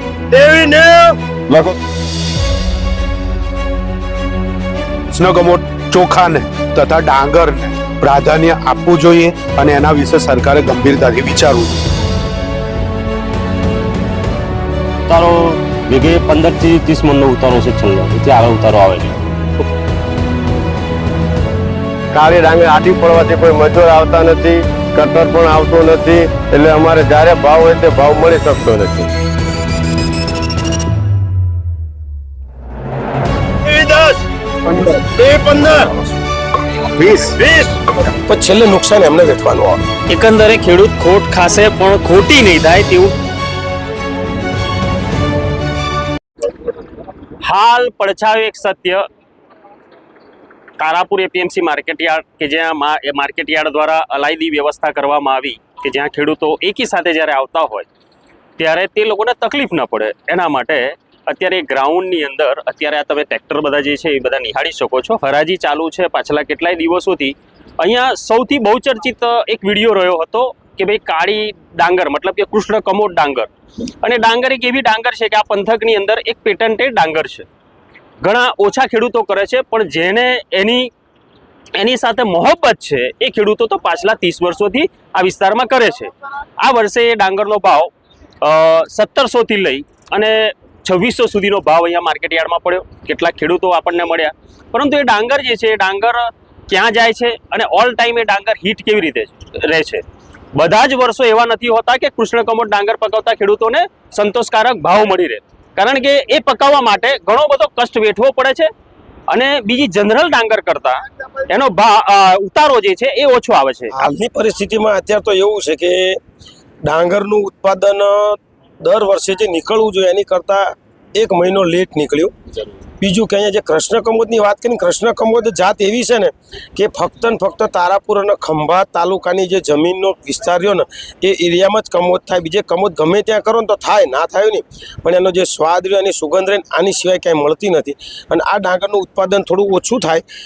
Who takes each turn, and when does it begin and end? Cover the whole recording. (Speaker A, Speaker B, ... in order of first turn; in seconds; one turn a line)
Speaker A: 0.3-1.7
Speaker B: 5.1-11.8
Speaker C: 15.1-19.2
Speaker D: 22.1-29.1
Speaker A: 33.7-34.2
Speaker A: 35.0-35.9
Speaker A: 37.2-39.8
Speaker E: 40.1-43.1
Speaker E: 47.4-49.0
Speaker E: 50.8-57.9
Speaker E: 58.6-73.5
Speaker E: 74.0-77.5
Speaker E: 78.2-80.9
Speaker E: 81.8-87.9
Speaker E: 88.4-100.0
Speaker E: 100.6-108.7
Speaker E: 109.3-114.0
Speaker A: 113.9-116.2
Speaker A: 116.8-122.3
Speaker A: 123.0-140.2